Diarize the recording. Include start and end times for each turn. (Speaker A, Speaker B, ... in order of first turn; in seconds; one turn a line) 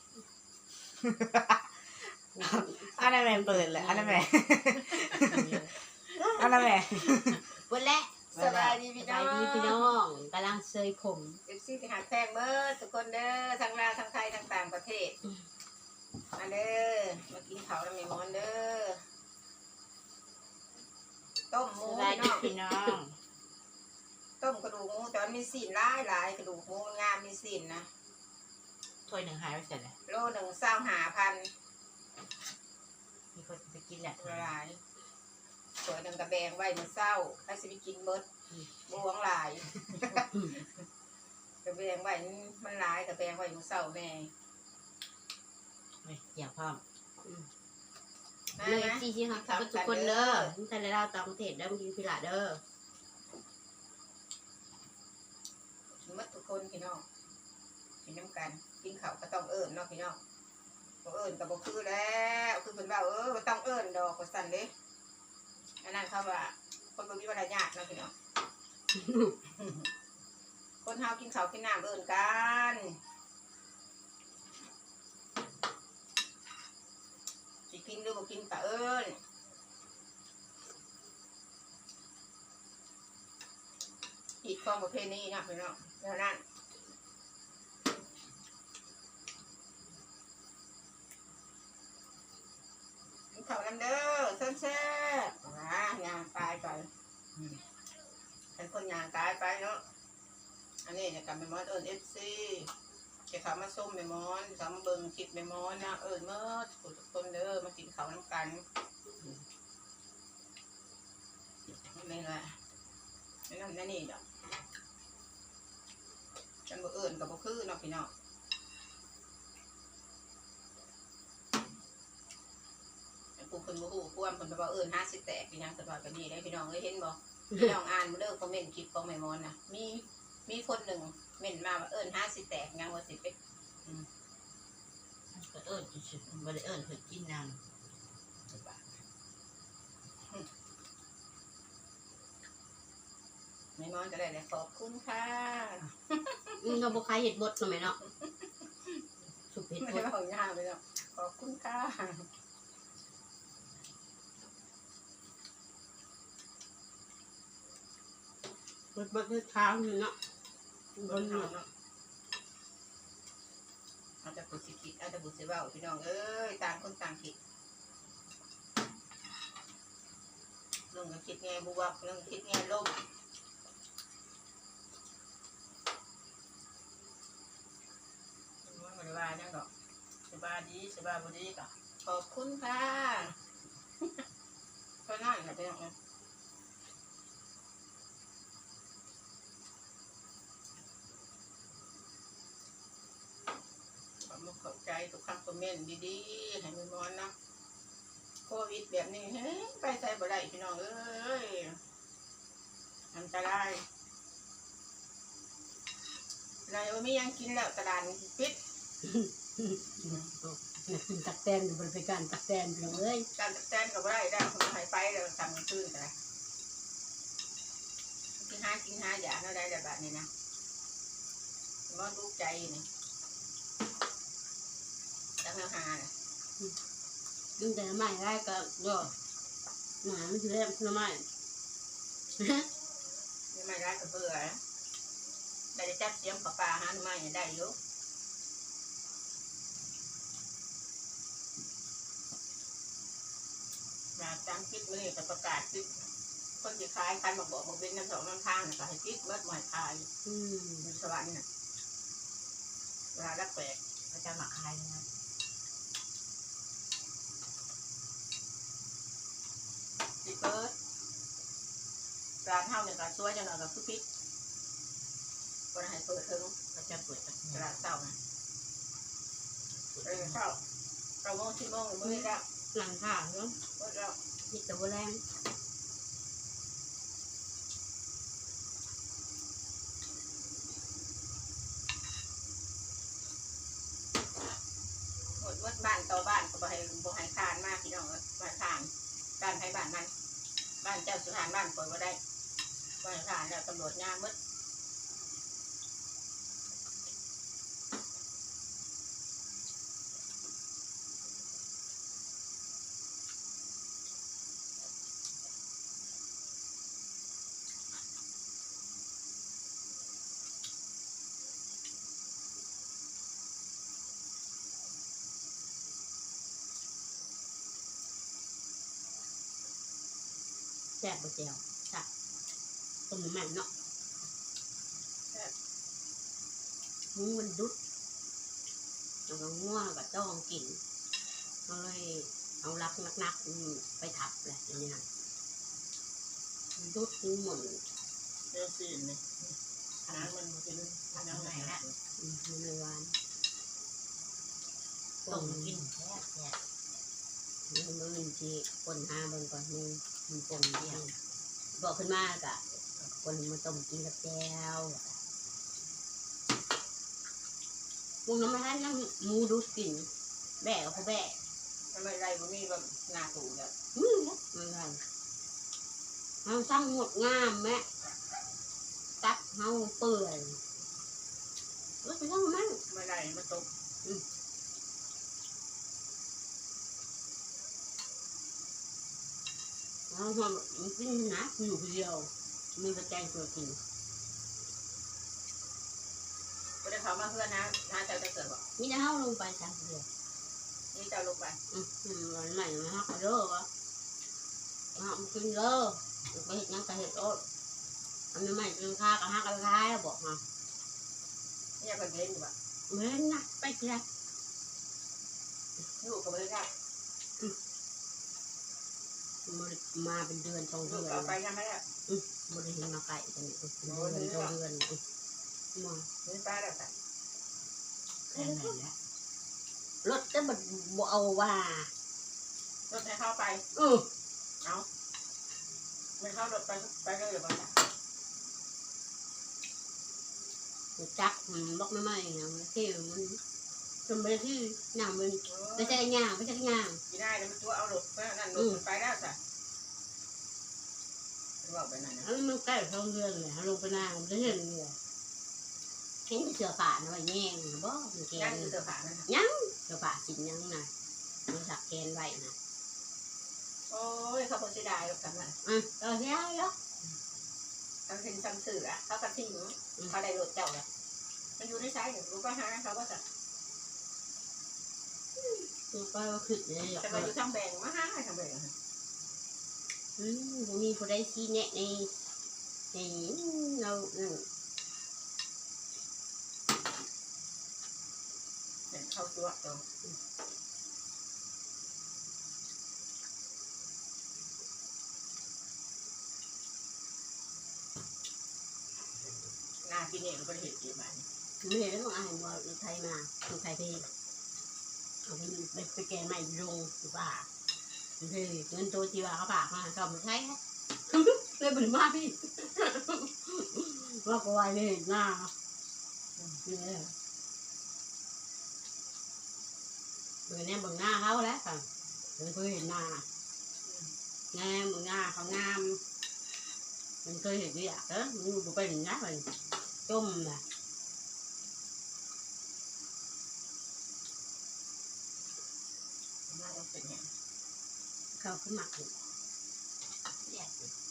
Speaker A: 1.0-5.5
Speaker B: 2.3-5.7
Speaker A: 6.2-8.8
Speaker C: 6.4-6.7
Speaker C: 8.3-9.9
Speaker B: 9.0-11.4
Speaker C: 11.4-15.2
Speaker C: 16.4-19.0
Speaker C: 21.5-22.5
Speaker A: 21.8-23.1
Speaker C: 24.4-27.9
Speaker A: 29.1-29.9
Speaker C: 30.1-31.5
Speaker A: 33.3-34.5
Speaker C: 34.2-34.8
Speaker C: 35.8-38.2
Speaker C: 38.9-40.6
Speaker C: 41.6-44.3
Speaker A: 46.0-46.8
Speaker C: 48.6-50.5
Speaker B: 48.6-52.6
Speaker C: 56.0-57.0
Speaker C: 58.0-60.2
Speaker C: 61.0-64.7
Speaker C: 65.8-68.1
Speaker B: 69.0-69.3
Speaker C: 69.6-69.8
Speaker C: 70.8-73.0
Speaker C: 77.7-79.2
Speaker C: 84.4-86.4
Speaker C: 93.3-97.6
Speaker C: 98.5-99.8
Speaker C: 100.8-102.7
Speaker C: 103.3-108.6
Speaker C: 111.9-112.5
Speaker C: 113.5-114.2
Speaker C: 116.7-118.1
Speaker C: 123.4-134.1
Speaker A: 135.3-137.6
Speaker C: 138.5-138.8
Speaker C: 143.8-146.7
Speaker B: 146.6-148.0
Speaker B: 149.5-150.1
Speaker C: 149.8-152.2
Speaker B: 158.9-160.1
Speaker B: 160.9-161.5
Speaker C: 161.1-161.7
Speaker C: 164.2-167.3
Speaker C: 170.9-172.9
Speaker C: 178.6-179.7
Speaker C: 180.3-183.3
Speaker C: 185.1-185.9
Speaker C: 194.2-197.3
Speaker C: 198.4-201.8
Speaker C: 203.1-203.8
Speaker C: 206.7-208.6
Speaker B: 209.0-213.3
Speaker C: 213.3-216.1
Speaker C: 218.4-220.3
Speaker C: 221.9-222.8
Speaker C: 225.4-226.1
Speaker B: 227.6-229.1
Speaker B: 230.0-231.2
Speaker B: 232.4-232.7
Speaker C: 233.5-234.6
Speaker C: 235.7-237.7
Speaker C: 244.2-245.9
Speaker C: 246.6-250.1
Speaker B: 250.2-250.8
Speaker C: 250.8-251.4
Speaker C: 253.1-253.8
Speaker A: 254.1-255.0
Speaker C: 260.2-260.7
Speaker C: 262.4-264.0
Speaker C: 265.7-266.5
Speaker A: 266.7-267.7
Speaker C: 267.5-268.1
Speaker A: 269.9-270.4
Speaker C: 270.0-270.6
Speaker C: 271.2-272.4
Speaker B: 272.0-273.6
Speaker C: 273.8-274.2
Speaker B: 274.5-275.2
Speaker C: 285.4-290.1
Speaker C: 290.8-292.2
Speaker C: 293.0-294.3
Speaker B: 321.0-322.1
Speaker B: 323.1-323.7
Speaker B: 327.1-327.7
Speaker B: 329.3-330.8
Speaker B: 331.7-335.0
Speaker B: 336.8-337.8
Speaker C: 338.5-339.4
Speaker C: 340.1-341.9
Speaker A: 341.1-341.8
Speaker B: 342.2-343.1
Speaker B: 345.2-345.8
Speaker A: 345.2-346.6
Speaker B: 347.7-351.1
Speaker A: 350.6-351.0
Speaker B: 351.8-355.2
Speaker B: 358.2-360.1
Speaker B: 360.6-361.4
Speaker C: 361.9-363.7
Speaker B: 363.9-365.0
Speaker B: 366.4-367.8
Speaker B: 369.2-370.6
Speaker B: 372.0-372.8
Speaker C: 372.9-373.7
Speaker B: 380.1-383.8
Speaker C: 386.8-388.6
Speaker B: 388.8-390.1
Speaker C: 390.9-391.6
Speaker B: 391.7-393.7
Speaker B: 394.9-397.4
Speaker B: 398.3-400.4
Speaker C: 401.8-402.5
Speaker B: 402.9-404.0
Speaker C: 406.0-406.7
Speaker B: 409.4-411.4
Speaker C: 410.8-411.8
Speaker B: 412.1-415.0
Speaker C: 413.8-414.6
Speaker B: 415.7-416.1
Speaker C: 416.2-416.9
Speaker A: 418.3-418.9
Speaker B: 418.3-418.7
Speaker B: 420.0-421.9
Speaker C: 422.9-423.6
Speaker B: 423.7-424.1
Speaker C: 426.2-427.8
Speaker B: 431.0-433.4
Speaker B: 434.1-437.0
Speaker C: 435.4-436.0
Speaker C: 437.1-439.4
Speaker B: 438.5-438.8
Speaker C: 441.6-442.3
Speaker B: 442.2-444.9
Speaker B: 446.3-448.7
Speaker C: 448.3-449.3
Speaker B: 449.3-450.9
Speaker B: 451.5-452.5
Speaker C: 453.9-455.5
Speaker B: 455.6-456.7
Speaker C: 458.1-460.9
Speaker C: 461.6-463.2
Speaker B: 465.4-467.3
Speaker C: 466.9-468.7
Speaker B: 470.2-472.1
Speaker B: 472.9-474.4
Speaker C: 478.9-479.8
Speaker C: 489.8-491.2
Speaker B: 491.6-494.1
Speaker B: 495.2-497.5
Speaker B: 498.2-505.5
Speaker B: 506.6-507.1
Speaker B: 510.5-511.9
Speaker B: 512.4-513.2
Speaker B: 514.5-516.0
Speaker B: 517.2-519.5
Speaker B: 520.0-520.6
Speaker C: 526.5-527.3
Speaker B: 528.4-529.1
Speaker A: 530.5-530.9